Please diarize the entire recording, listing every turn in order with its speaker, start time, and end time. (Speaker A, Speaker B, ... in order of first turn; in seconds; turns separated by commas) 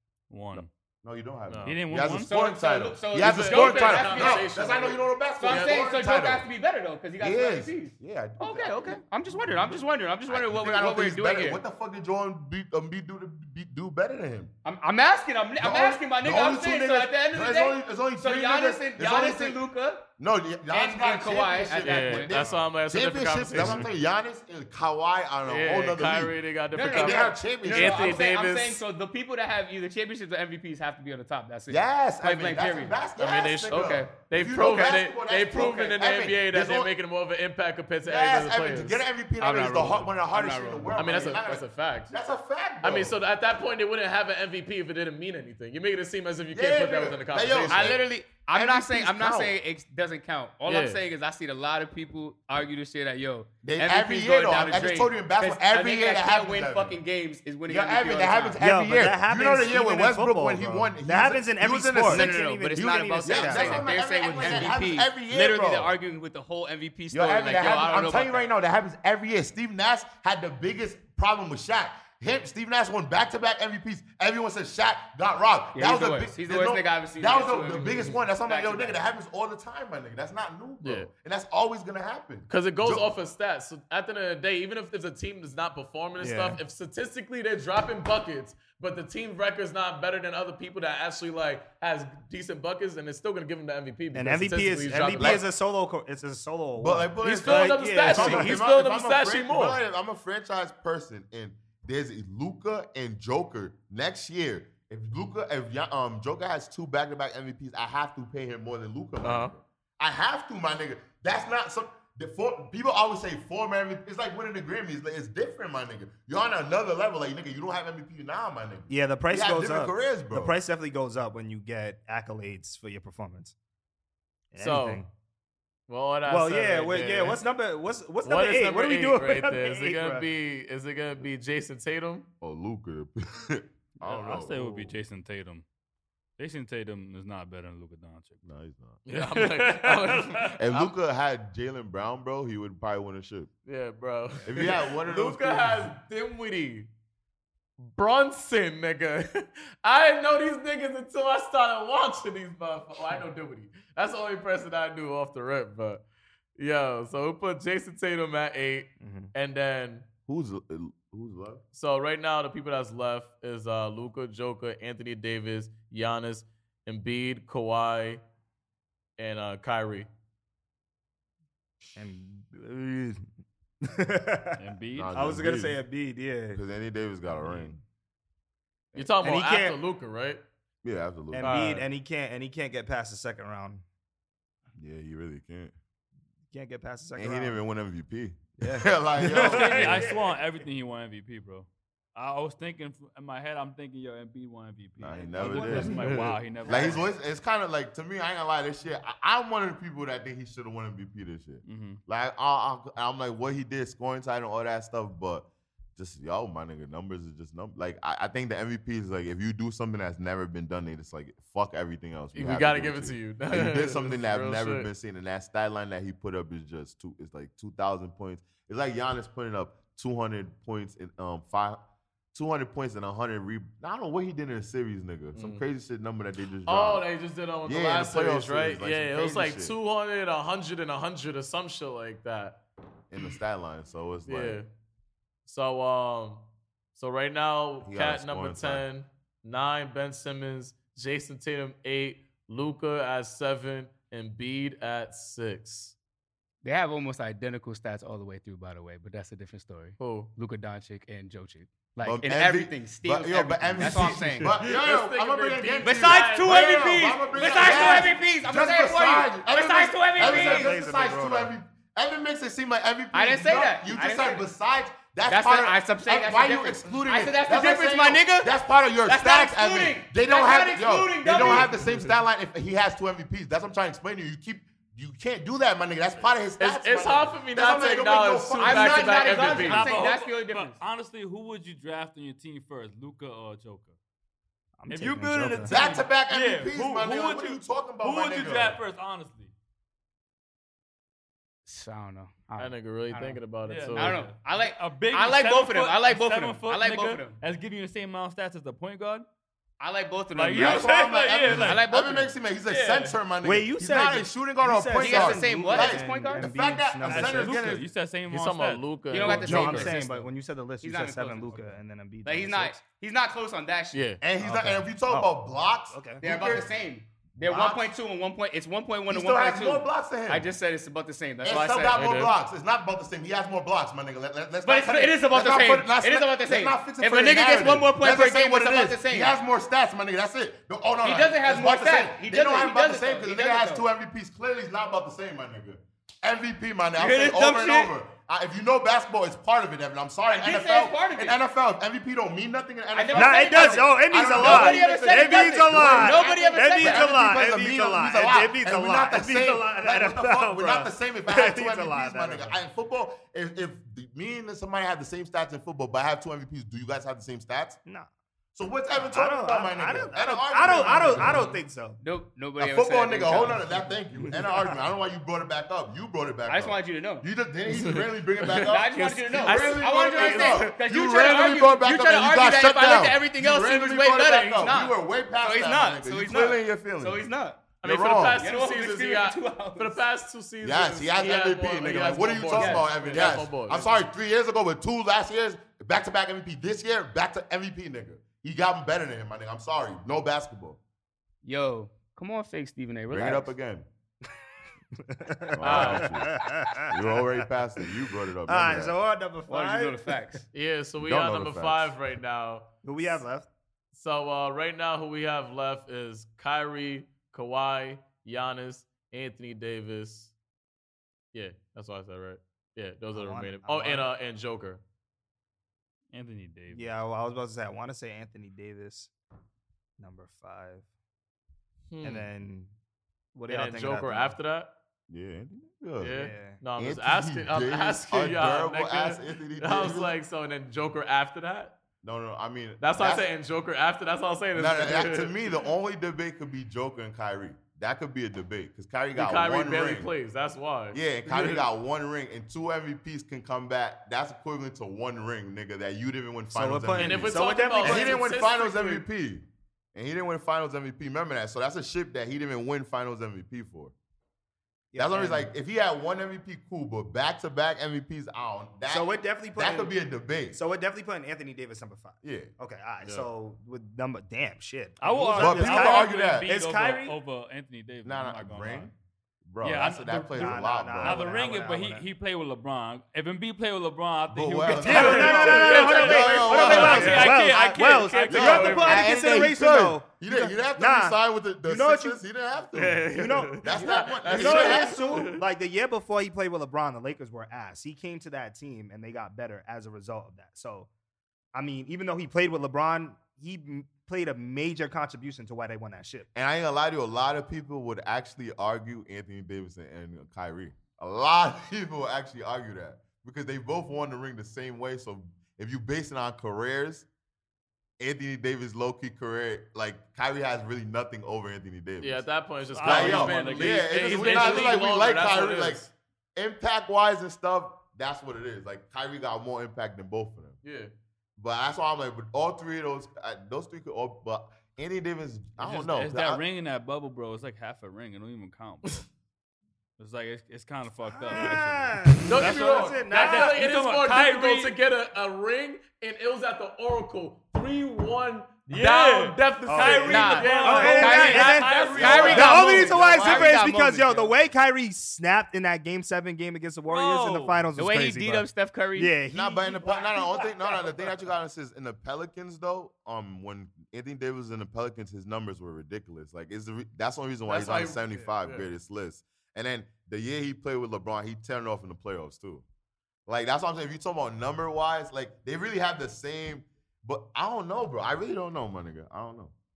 Speaker A: 0.3-0.7, Speaker B: 0.6-6.5, Speaker C: 1.5-1.8, Speaker A: 1.6-2.3, Speaker D: 2.2-4.5, Speaker C: 3.1-5.8, Speaker D: 5.4-11.6, Speaker B: 7.2-14.5, Speaker D: 14.6-20.1, Speaker B: 15.6-19.6, Speaker B: 20.2-26.4, Speaker D: 20.7-22.4, Speaker C: 21.8-23.9, Speaker C: 25.4-28.8, Speaker D: 26.7-33.0, Speaker B: 26.9-28.2, Speaker B: 31.7-36.9, Speaker C: 33.2-39.0, Speaker D: 33.7-34.1, Speaker B: 38.0-43.1, Speaker D: 39.4-41.4, Speaker C: 40.9-42.1, Speaker C: 42.8-47.9, Speaker B: 46.5-49.5, Speaker D: 47.7-58.6, Speaker C: 50.7-51.0, Speaker B: 53.6-57.0, Speaker B: 57.7-65.9, Speaker E: 58.6-64.7, Speaker D: 62.1-68.4, Speaker B: 67.1-83.1, Speaker D: 75.7-79.0, Speaker C: 77.8-78.1, Speaker C: 80.8-81.1, Speaker C: 82.5-95.4, Speaker E: 86.2-86.6, Speaker E: 94.1-98.6, Speaker B: 95.2-95.4, Speaker B: 96.8-120.5, Speaker C: 97.2-99.8, Speaker C: 109.2-109.5, Speaker E: 118.9-123.5, Speaker E: 124.5-125.1, Speaker C: 124.6-125.0, Speaker C: 125.9-127.4, Speaker E: 126.3-130.3, Speaker C: 128.2-132.3, Speaker B: 132.4-135.0, Speaker A: 134.0-135.6, Speaker A: 136.4-138.4, Speaker B: 138.4-139.1, Speaker C: 139.1-140.9, Speaker A: 139.1-140.4, Speaker B: 140.5-143.5, Speaker C: 143.7-146.9, Speaker B: 144.4-145.9, Speaker C: 147.8-156.1, Speaker C: 156.6-160.1, Speaker E: 159.0-159.3, Speaker B: 160.3-161.6, Speaker C: 161.7-168.2, Speaker C: 169.2-170.1, Speaker E: 172.0-173.3, Speaker E: 173.8-174.6, Speaker A: 174.6-175.2, Speaker B: 174.9-175.8, Speaker E: 175.1-176.6, Speaker B: 176.5-177.8, Speaker E: 177.3-177.7, Speaker C: 178.9-180.4, Speaker E: 179.2-179.8, Speaker B: 180.8-181.6, Speaker E: 181.3-183.8, Speaker C: 181.4-181.9, Speaker B: 184.8-185.8, Speaker E: 186.5-187.6, Speaker B: 187.2-190.1, Speaker E: 188.6-190.3, Speaker A: 189.3-197.0, Speaker B: 195.0-221.8, Speaker E: 195.3-197.1, Speaker C: 196.0-196.3, Speaker A: 201.6-202.0, Speaker C: 212.3-214.9, Speaker B: 222.3-227.1, Speaker C: 225.3-225.6, Speaker C: 226.6-232.6, Speaker B: 227.6-229.8, Speaker B: 233.1-234.6, Speaker C: 234.3-234.7, Speaker C: 235.4-245.9, Speaker B: 237.8-238.8, Speaker D: 246.6-254.6, Speaker C: 250.0-250.3, Speaker B: 252.1-279.9, Speaker C: 253.8-257.0, Speaker D: 255.8-260.8, Speaker C: 257.7-258.0, Speaker E: 260.2-261.5, Speaker D: 263.1-264.4, Speaker D: 265.3-268.5, Speaker D: 269.1-271.7, Speaker C: 271.3-272.1, Speaker C: 276.6-280.0, Speaker D: 278.6-280.8, Speaker A: 279.5-283.9, Speaker E: 284.8-285.8, Speaker A: 284.9-289.5, Speaker B: 285.6-288.8, Speaker D: 291.6-297.4, Speaker C: 292.6-294.2, Speaker A: 293.6-299.3, Speaker D: 299.8-302.3, Speaker A: 300.4-301.8, Speaker B: 300.5-307.8, Speaker A: 302.7-303.2, Speaker E: 303.4-307.8, Speaker D: 305.0-306.5, Speaker A: 307.0-309.2, Speaker C: 308.3-309.9, Speaker D: 309.1-314.2, Speaker E: 309.2-312.8, Speaker C: 313.9-314.2, Speaker B: 314.2-316.7, Speaker E: 314.4-315.4, Speaker E: 315.9-316.2, Speaker D: 316.2-322.0, Speaker B: 317.4-317.9, Speaker B: 319.1-320.5, Speaker B: 321.4-357.8, Speaker C: 321.9-322.3, Speaker D: 324.6-329.4, Speaker D: 331.0-333.9, Speaker D: 337.0-337.9, Speaker D: 340.3-341.4, Speaker D: 342.9-347.2, Speaker E: 343.1-352.6, Speaker B: 358.6-361.5, Speaker E: 359.0-362.0, Speaker D: 362.0-363.9, Speaker B: 362.6-377.2, Speaker E: 364.1-364.8, Speaker D: 366.5-367.3, Speaker C: 367.7-368.8, Speaker D: 368.6-377.7, Speaker C: 369.3-370.8, Speaker C: 377.8-384.0, Speaker B: 377.8-378.4, Speaker D: 378.3-380.0, Speaker B: 380.6-390.8, Speaker D: 382.5-383.4, Speaker D: 391.4-393.5, Speaker B: 393.1-393.9, Speaker E: 395.1-397.2, Speaker B: 395.5-399.0, Speaker C: 395.6-396.2, Speaker E: 398.5-400.2, Speaker D: 399.5-400.4, Speaker C: 400.5-402.7, Speaker B: 401.0-401.9, Speaker E: 402.8-403.5, Speaker C: 403.9-410.3, Speaker C: 411.3-414.8, Speaker E: 413.1-414.1, Speaker A: 416.1-416.9, Speaker E: 416.7-419.1, Speaker E: 420.0-420.9, Speaker C: 421.9-422.3, Speaker E: 422.0-422.7, Speaker E: 423.3-424.4, Speaker C: 423.5-424.7, Speaker B: 425.1-426.2, Speaker C: 426.0-431.8, Speaker E: 426.1-426.6, Speaker B: 426.8-430.1, Speaker B: 432.0-433.3, Speaker C: 432.8-435.5, Speaker B: 434.5-440.1, Speaker C: 439.1-441.6, Speaker B: 440.9-453.9, Speaker E: 446.5-448.3, Speaker C: 447.0-449.1, Speaker E: 454.9-455.5, Speaker B: 455.0-460.6, Speaker E: 458.9-460.0, Speaker E: 460.5-467.2, Speaker B: 462.2-462.5, Speaker C: 463.0-463.3, Speaker A: 465.0-468.9, Speaker B: 465.4-466.5, Speaker B: 468.0-468.9, Speaker B: 469.5-471.3, Speaker A: 469.6-479.1, Speaker E: 470.3-472.1, Speaker B: 474.3-477.5, Speaker E: 474.8-482.2, Speaker C: 474.9-479.1, Speaker B: 478.3-485.1, Speaker C: 482.8-485.4, Speaker E: 483.1-490.9, Speaker E: 491.5-496.3, Speaker B: 496.3-507.1, Speaker B: 508.0-512.2, Speaker C: 512.0-515.9, Speaker A: 512.7-514.8, Speaker B: 512.8-520.6, Speaker C: 520.6-520.9, Speaker B: 521.4-526.4, Speaker A: 525.6-529.0, Speaker A: 530.0-534.8, Speaker E: 531.0-533.5, Speaker C: 532.2-543.0, Speaker A: 538.7-543.0, Speaker E: 539.7-551.1, Speaker D: 540.0-544.3, Speaker B: 542.3-543.5, Speaker A: 546.9-547.7, Speaker D: 547.8-549.2, Speaker B: 549.3-562.6, Speaker C: 557.4-558.7, Speaker B: 563.3-569.5